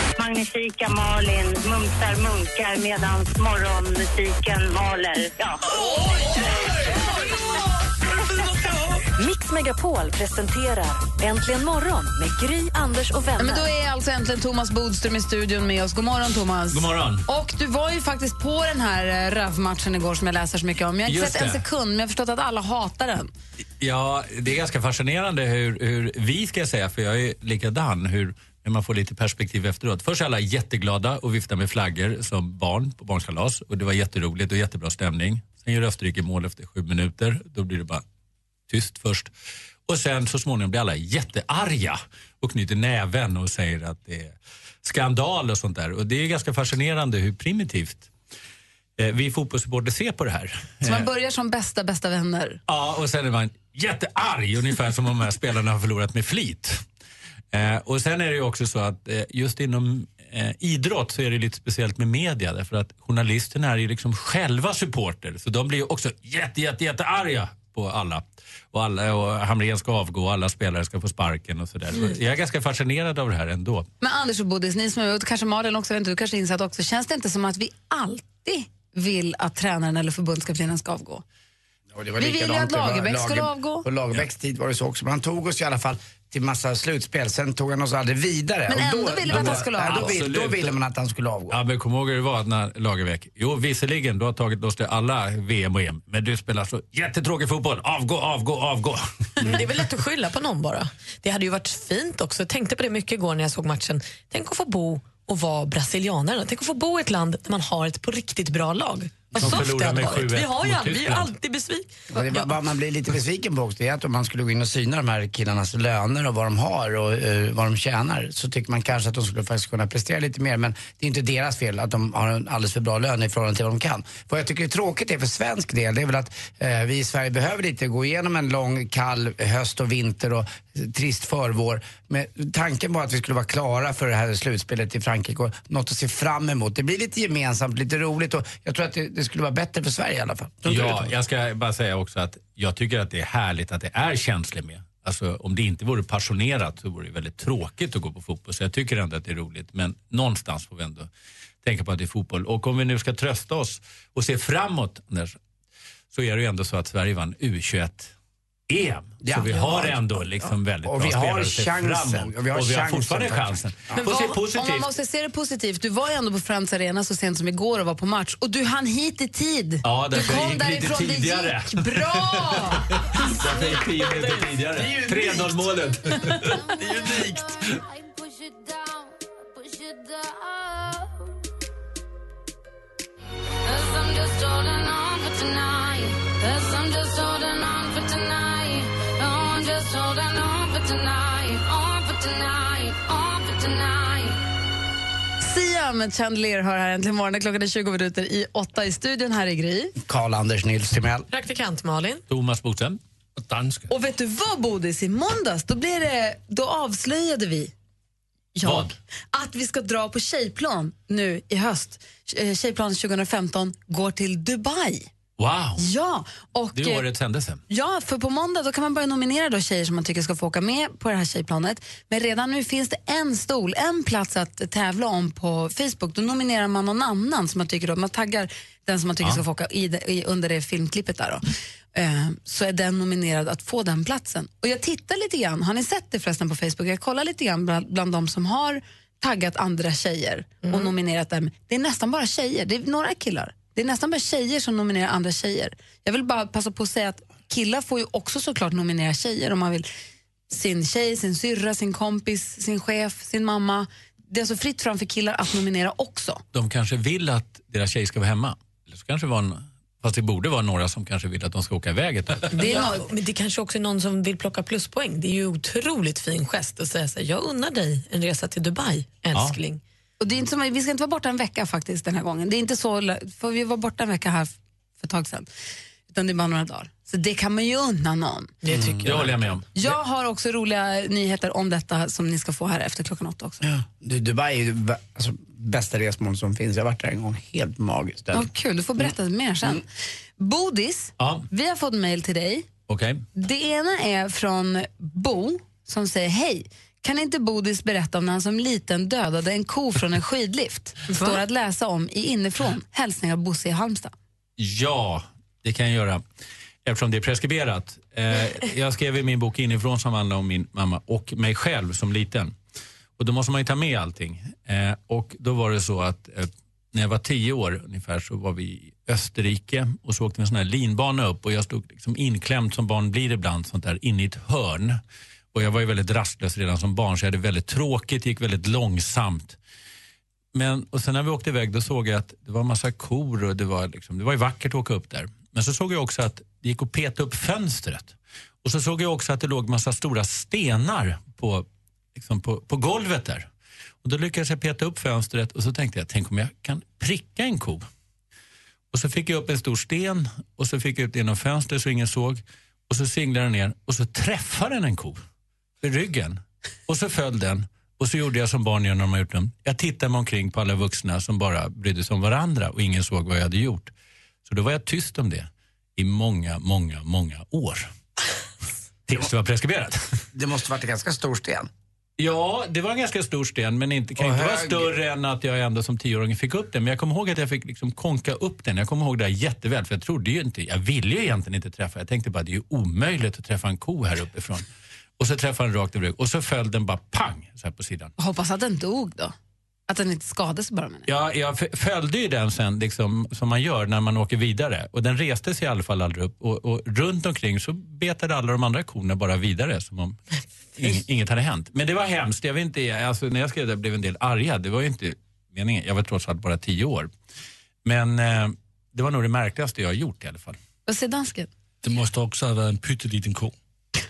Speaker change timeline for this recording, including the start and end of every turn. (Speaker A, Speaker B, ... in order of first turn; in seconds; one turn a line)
Speaker A: 0.2-5.7
Speaker B: 9.2-13.7
Speaker C: 13.4-23.3
Speaker D: 16.7-17.3
Speaker D: 21.1-21.6
Speaker D: 23.8-38.0
Speaker D: 38.7-39.3
Speaker D: 39.9-48.1
Speaker D: 49.0-51.1
Speaker C: 50.8-52.6
Speaker D: 52.7-56.8
Speaker D: 57.5-73.9
Speaker C: 74.0-81.2
Speaker E: 81.9-91.6
Speaker C: 82.2-83.9
Speaker C: 88.7-90.2
Speaker D: 89.3-90.7
Speaker D: 91.5-99.5
Speaker F: 99.4-112.5
Speaker D: 109.4-111.3
Speaker E: 112.1-141.1
Speaker D: 140.7-151.1
Speaker D: 151.6-155.4
Speaker D: 156.1-158.1
Speaker D: 158.7-164.9
Speaker E: 159.2-160.0
Speaker E: 160.8-164.0
Speaker F: 164.0-164.3
Speaker C: 164.1-172.9
Speaker D: 169.8-176.6
Speaker F: 173.4-174.7
Speaker G: 176.4-181.3
Speaker G: 183.7-194.4
Speaker C: 195.4-199.9
Speaker E: 200.0-201.3
Speaker F: 201.3-202.2
Speaker D: 202.3-203.0
Speaker H: 203.4-203.9
Speaker C: 203.9-207.7
Speaker C: 208.6-215.1
Speaker D: 208.6-208.9
Speaker D: 215.4-215.8
Speaker C: 215.8-217.1
Speaker D: 216.7-217.6
Speaker C: 217.7-249.9
Speaker F: 240.7-240.9
Speaker C: 250.5-256.4
Speaker D: 256.5-262.6
Speaker F: 262.5-269.8
Speaker C: 262.6-263.1
Speaker C: 270.2-275.5
Speaker C: 276.1-278.6
Speaker F: 278.6-279.4
Speaker E: 278.7-279.1
Speaker D: 279.0-279.7
Speaker C: 279.8-283.6
Speaker E: 283.6-289.1
Speaker C: 288.3-292.7
Speaker D: 291.2-291.5
Speaker D: 292.9-293.2
Speaker C: 293.4-304.1
Speaker F: 301.1-301.4
Speaker D: 304.6-306.2
Speaker D: 306.9-312.5
Speaker D: 313.2-325.0
Speaker D: 325.5-329.6
Speaker D: 330.5-343.5
Speaker D: 344.0-347.9
Speaker D: 348.9-355.2
Speaker D: 355.8-363.9
Speaker D: 364.4-367.9
Speaker D: 369.1-370.2
Speaker E: 370.3-371.7
Speaker D: 372.2-384.7
Speaker E: 374.2-375.0
Speaker D: 385.2-388.1
Speaker C: 388.2-389.4
Speaker C: 389.9-391.1
Speaker D: 391.1-400.2
Speaker D: 400.8-407.1
Speaker D: 407.8-410.6
Speaker C: 410.9-411.5
Speaker H: 411.8-413.5